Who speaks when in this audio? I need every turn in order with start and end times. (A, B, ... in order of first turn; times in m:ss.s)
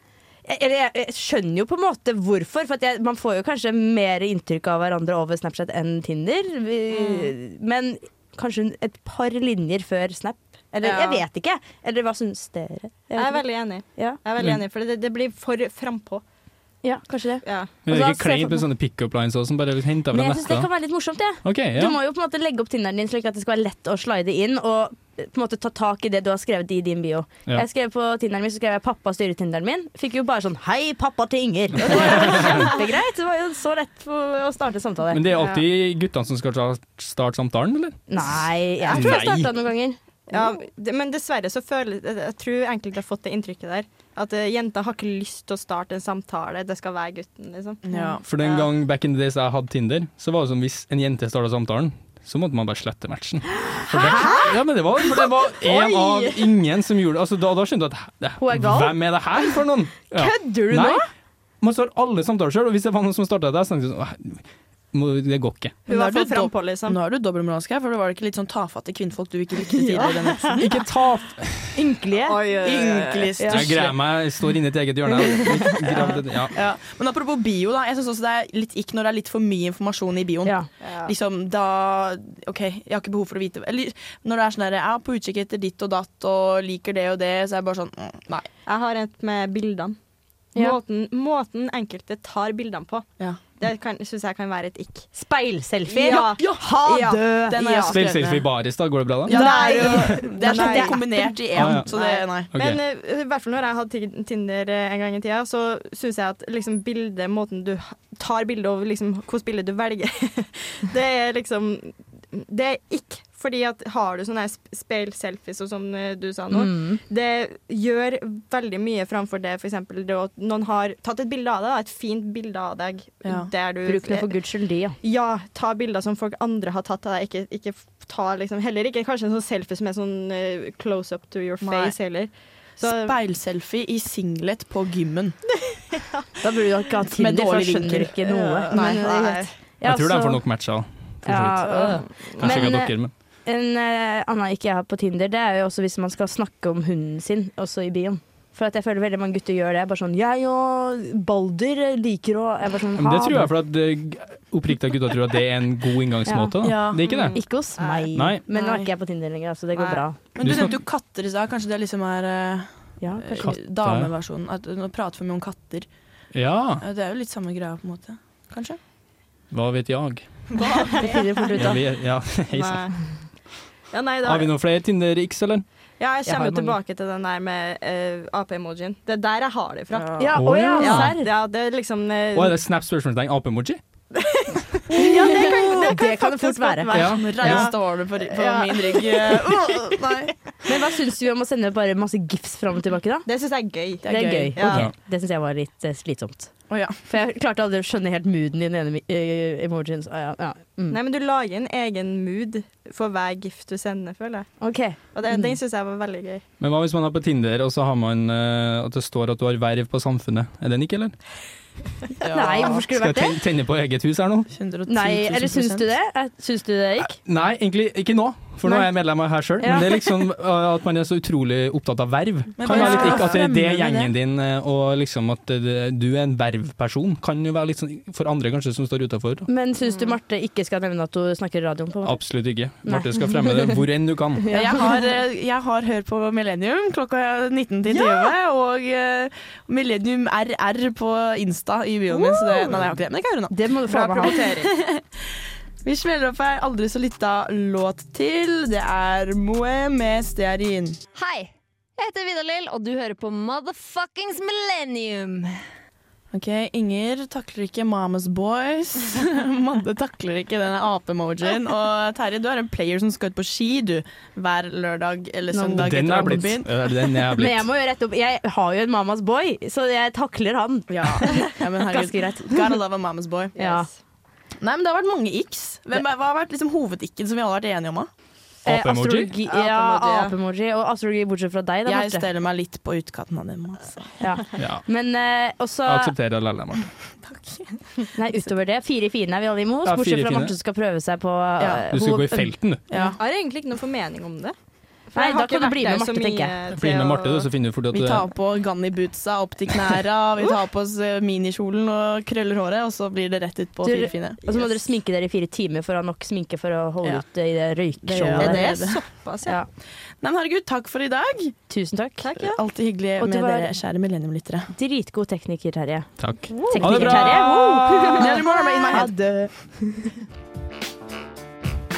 0:00.4-0:14.2 A
0:07.0-0:07.3 B
0:10.8-0:11.2 B
0:13.1-0:16.2 B
0:16.8-0:18.7 A
0:17.4-0:17.7 B
0:17.9-0:20.7 C
0:20.1-0:35.6 A
0:21.4-0:22.0 C
0:31.9-0:32.7 C
0:32.0-0:32.6 B
0:35.1-0:39.5 C
0:38.1-0:40.0 A
0:38.9-0:39.3 B
0:40.3-0:48.7 B
0:47.8-0:48.2 D
0:48.2-1:01.0 C
0:53.9-0:56.5 A
0:58.4-0:59.6 A
1:00.1-1:01.1 A
1:01.6-1:05.8 C
1:05.9-1:07.0 B
1:05.9-1:10.7 D
1:09.9-1:10.6 B
1:10.5-1:11.8 C
1:11.8-1:12.5 A
1:12.3-1:13.4 B
1:12.5-1:14.0 D
1:13.4-1:13.8 A
1:13.5-1:16.6 C
1:15.7-1:28.5 D
1:20.8-1:21.1 B
1:28.7-1:30.0 B
1:30.6-1:35.1 B
1:35.1-1:37.6 A
1:35.9-1:38.0 B
1:36.0-1:38.5 D
1:37.9-1:39.4 C
1:39.3-1:42.5 D
1:39.3-2:04.3 B
1:39.3-1:41.1 A
1:39.9-1:40.2 C
1:41.6-1:41.9 C
1:42.5-1:42.8 C
1:56.5-1:57.0 A
2:03.8-2:05.0 A
2:05.0-2:13.2 B
2:11.6-2:12.0 D
2:12.8-2:15.4 D
2:15.7-2:16.2 B
2:16.4-2:20.5 A
2:17.2-2:18.2 D
2:18.3-2:19.5 B
2:18.7-2:19.1 D
2:19.8-2:23.1 C
2:21.2-2:33.5 A
2:21.6-2:22.7 B
2:33.0-2:37.4 C
2:36.3-2:36.6 A
2:36.6-2:37.2 D
2:37.0-2:38.1 B
2:37.3-2:40.2 A
2:38.2-2:38.4 C
2:38.5-2:38.9 D
2:39.9-2:45.9 D
2:40.4-2:40.8 C
2:43.0-2:43.6 A
2:43.4-2:44.1 C
2:46.3-2:46.8 C
2:46.8-2:48.8 D
2:49.5-2:50.5 C
2:50.5-2:51.2 D
2:51.0-2:51.8 A
2:51.0-2:51.6 B
2:51.5-2:52.9 C
2:52.5-2:53.0 B
2:53.9-2:54.5 B
2:54.2-2:55.6 C
2:56.0-3:02.6 B
2:56.3-2:56.7 A
2:59.9-3:00.2 D
3:00.2-3:01.3 A
3:00.4-3:01.2 C
3:02.4-3:03.8 C
3:04.1-3:06.1 B
3:04.9-3:07.6 A
3:05.0-3:10.3 D
3:06.9-3:07.7 C
3:07.4-3:09.6 B
3:10.7-3:13.3 A
3:13.3-3:14.9 B
3:14.0-3:14.6 D
3:14.0-3:16.5 A
3:14.7-3:14.9 C
3:17.1-3:21.0 A
3:20.9-3:24.5 B
3:24.6-3:25.6 A
3:25.1-3:26.4 B
3:26.6-3:31.2 C
3:32.2-3:32.8 D
3:32.2-3:33.4 A
3:32.6-3:34.5 C
3:34.5-3:35.9 D
3:34.9-3:37.2 A
3:37.0-3:49.5 C
3:38.6-3:38.9 A
3:39.6-3:40.0 A
3:42.6-3:44.1 D
3:42.7-3:43.4 A
3:49.5-3:52.3 A
3:49.8-3:50.1 B
3:52.0-3:54.5 C
3:52.8-3:53.8 A
3:54.5-3:54.9 A
3:54.5-4:03.6 D
3:57.9-3:58.3 A
4:02.1-4:02.9 A
4:03.5-4:04.6 A
4:03.9-4:04.7 B
4:04.2-4:05.1 D
4:05.8-4:11.0 D
4:11.2-4:15.5 E
4:16.3-4:26.9 D
4:25.5-4:26.1 A
4:25.8-4:27.7 C
4:27.4-4:32.8 A
4:30.9-4:33.6 D
4:33.6-4:33.9 B
4:33.6-4:33.9 A
4:34.6-4:38.1 D
4:38.6-4:39.3 C
4:38.6-4:42.3 A
4:39.4-4:40.4 B
4:41.9-4:44.1 D
4:44.2-4:46.1 A
4:44.6-4:44.8 C
4:45.8-4:46.9 C
4:47.2-4:48.1 D
4:48.2-4:53.2 A
4:49.8-4:50.5 C
4:51.6-4:51.8 D
4:51.9-4:52.8 C
4:52.9-4:53.2 D
4:53.2-4:54.6 B
4:55.1-4:57.5 B
4:55.2-4:56.6 A
4:56.8-4:58.3 C
4:57.9-5:04.4 D
5:03.8-5:08.9 A
5:04.4-5:04.7 B
5:08.0-5:09.0 D
5:08.4-5:09.6 B
5:10.2-5:11.6 D
5:11.7-5:12.3 A
5:12.2-5:12.6 B
5:12.4-5:14.7 D
5:13.2-5:13.7 A
5:14.7-5:20.0 A
5:16.2-5:18.3 C
5:16.6-5:17.1 B
5:16.8-5:17.4 D
5:18.2-5:19.4 D
5:18.5-5:19.1 B